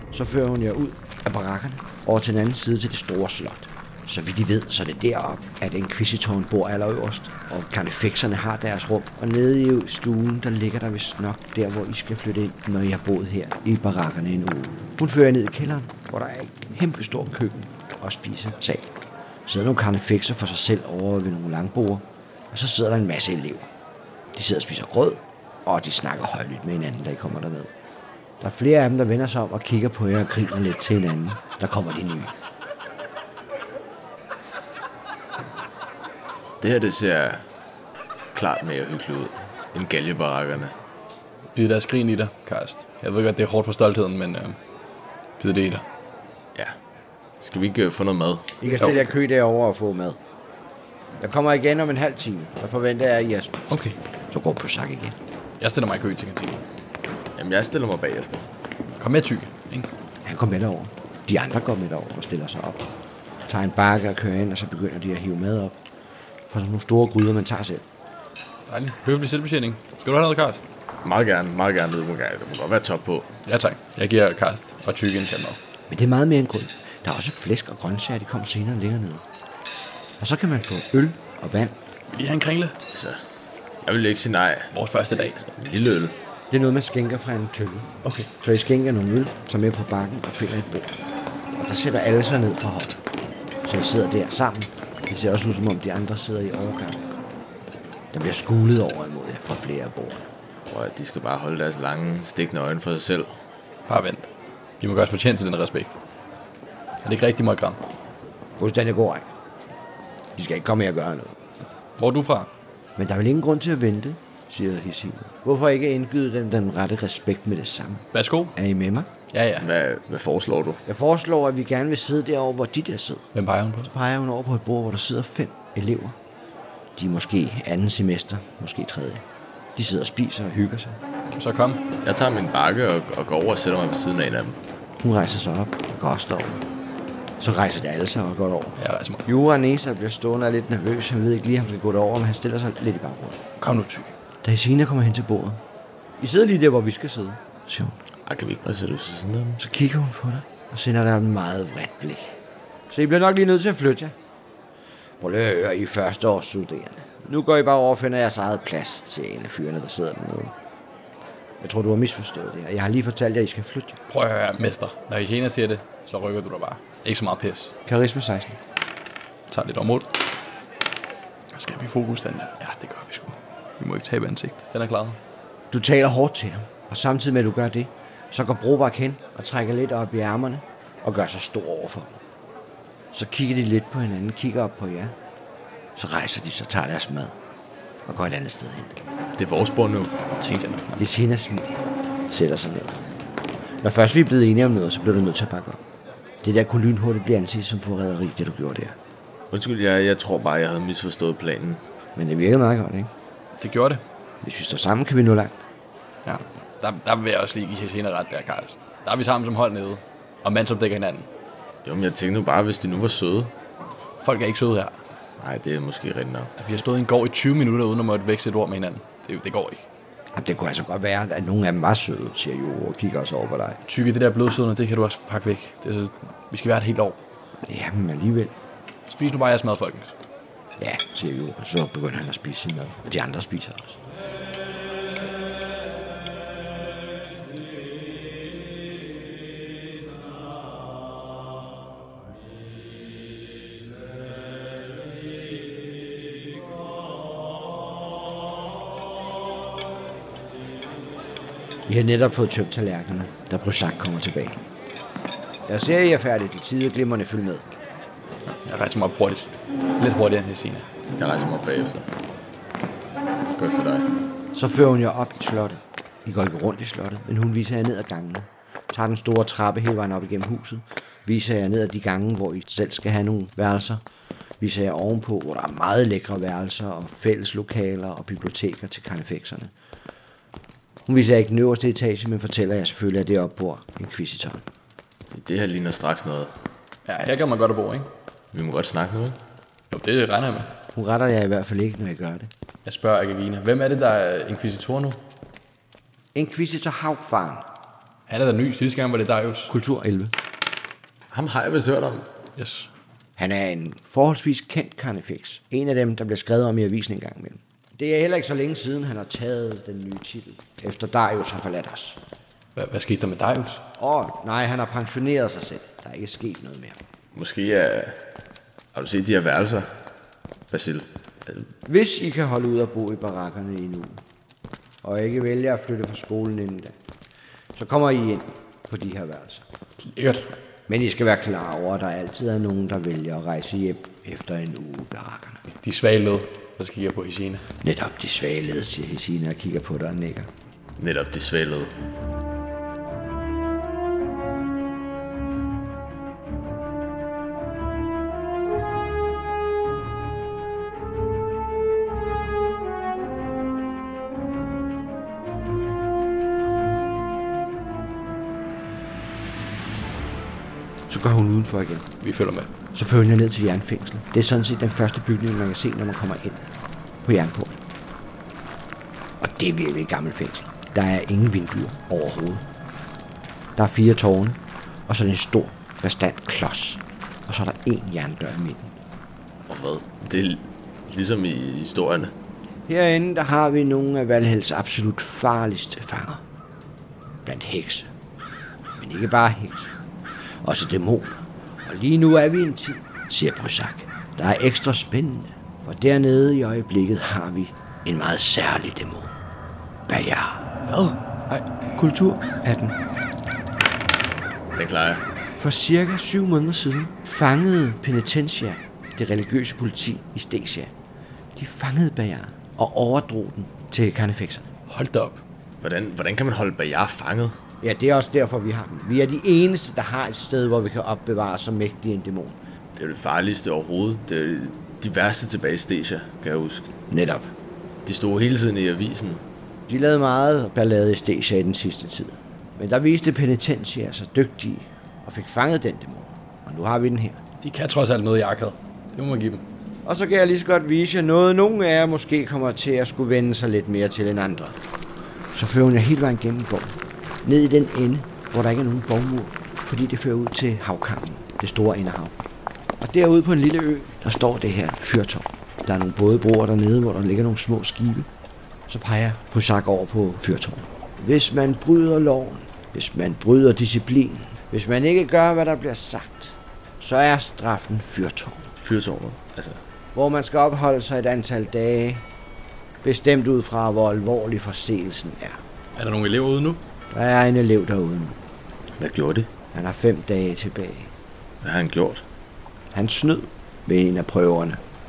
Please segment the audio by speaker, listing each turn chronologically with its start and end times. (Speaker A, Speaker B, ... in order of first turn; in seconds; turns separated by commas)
Speaker A: 0.1-18.9, Speaker A: 19.4-23.7, Speaker A: 24.3-27.7, Speaker A: 28.4-32.3, Speaker B: 36.6-37.4, Speaker B: 38.3-40.7, Speaker C: 41.5-44.6, Speaker C: 45.4-45.8, Speaker B: 47.4-48.5, Speaker A: 48.6-50.2, Speaker A: 51.2-55.2, Speaker C: 53.7-54.0, Speaker C: 55.6-56.6, Speaker B: 57.4-58.4, Speaker C: 59.0-59.9, Speaker A: 60.2-62.9, Speaker A: 63.5-65.8, Speaker A: 66.5-67.8, Speaker C: 68.7-70.6, Speaker B: 71.0-73.3, Speaker C: 73.5-75.6, Speaker A: 75.9-79.2, Speaker A: 80.2-81.8, Speaker C: 82.1-82.8, Speaker B: 82.9-83.2, Speaker B: 83.8-86.2, Speaker C: 84.7-85.4, Speaker A: 86.5-91.0, Speaker C: 88.0-88.3, Speaker A: 91.5-93.0, Speaker A: 93.6-97.0, Speaker A: 98.1-100.3, Speaker B: 100.7-103.3, Speaker C: 103.9-104.3, Speaker C: 104.8-106.0, Speaker C: 107.0-107.8, Speaker A: 108.5-109.3, Speaker A: 110.3-111.3, Speaker C: 112.0-112.5, Speaker A: 113.0-119.1, Speaker C: 118.1-118.5, Speaker C: 119.3-119.7, Speaker B: 119.6-120.8, Speaker A: 120.8-123.3, Speaker C: 123.3-123.9, Speaker A: 123.8-126.2, Speaker A: 127.0-129.2, Speaker A: 129.7-131.0, Speaker C: 131.3-131.8, Speaker B: 132.0-134.6, Speaker A: 135.0-136.6, Speaker A: 137.4-143.4, Speaker C: 138.8-139.2, Speaker C: 143.6-144.1, Speaker A: 144.4-145.6, Speaker A: 146.2-148.0, Speaker B: 148.2-149.6, Speaker A: 149.6-152.4, Speaker A: 152.9-154.1, Speaker A: 155.2-160.5, Speaker A: 161.6-164.0, Speaker C: 164.1-167.7, Speaker A: 167.8-168.6, Speaker C: 169.5-170.1, Speaker C: 171.5-175.2, Speaker A: 175.7-182.2, Speaker A: 183.1-185.1, Speaker A: 185.9-187.3, Speaker A: 188.1-189.0, Speaker B: 189.3-190.1, Speaker C: 190.4-191.0, Speaker A: 191.0-193.0, Speaker A: 193.8-195.8, Speaker A: 196.4-199.0, Speaker B: 199.5-201.8, Speaker A: 202.2-203.1, Speaker C: 203.6-204.0, Speaker A: 204.4-205.6, Speaker C: 206.2-211.3, Speaker B: 211.8-213.5, Speaker C: 214.2-215.0, Speaker B: 215.4-216.5, Speaker C: 216.6-219.9, Speaker A: 220.3-223.8, Speaker C: 223.8-227.2, Speaker A: 227.7-228.5, Speaker C: 229.1-230.1, Speaker A: 230.8-234.0, Speaker A: 251.8-254.6, Speaker A: 255.7-257.6, Speaker C: 258.4-260.9, Speaker B: 261.1-262.1, Speaker B: 263.5-264.1, Speaker A: 264.5-274.0, Speaker A: 274.6-279.7, Speaker A: 281.1-284.6, Speaker B: 285.3-286.5, Speaker C: 287.1-288.1, Speaker B: 288.5-289.4, Speaker C: 289.9-290.7, Speaker A: 290.9-292.5, Speaker C: 292.8-295.2, Speaker A: 296.3-297.6, Speaker C: 298.3-299.7, Speaker A: 299.7-300.3, Speaker B: 301.3-302.3, Speaker C: 302.6-302.9, Speaker A: 303.4-312.2, Speaker C: 312.8-313.8, Speaker A: 314.0-317.0, Speaker B: 317.3-318.2, Speaker B: 318.9-319.9, Speaker B: 320.7-321.6, Speaker A: 321.9-324.2, Speaker A: 325.0-326.9, Speaker A: 327.7-329.6, Speaker C: 330.0-330.5, Speaker A: 330.9-335.6, Speaker C: 335.7-337.7, Speaker A: 337.8-340.5, Speaker B: 341.0-341.9, Speaker A: 361.1-362.1, Speaker C: 362.2-362.7, Speaker A: 362.9-366.6, Speaker A: 367.2-367.8, Speaker A: 369.4-372.6, Speaker A: 373.8-378.9, Speaker B: 379.7-382.3, Speaker A: 382.9-386.4, Speaker A: 387.4-388.1, Speaker A: 389.0-389.9, Speaker A: 390.6-399.3, Speaker A: 400.1-400.7, Speaker C: 400.9-401.1, Speaker A: 401.5-403.0, Speaker B: 404.7-405.2, Speaker A: 405.6-410.9, Speaker A: 411.6-414.7, Speaker C: 414.9-415.4, Speaker B: 415.8-417.5, Speaker A: 417.8-422.6, Speaker B: 422.9-426.9, Speaker A: 427.1-427.5, Speaker B: 428.1-429.4, Speaker A: 429.9-437.4, Speaker C: 437.6-439.6, Speaker A: 440.0-444.8, Speaker A: 445.5-452.4, Speaker A: 453.0-458.3, Speaker A: 458.9-468.7, Speaker B: 468.8-469.8, Speaker A: 470.1-472.2, Speaker A: 473.0-475.6, Speaker C: 475.9-476.8, Speaker A: 477.1-478.4, Speaker B: 479.0-479.5, Speaker A: 479.7-481.1, Speaker B: 481.6-482.2, Speaker A: 482.9-484.8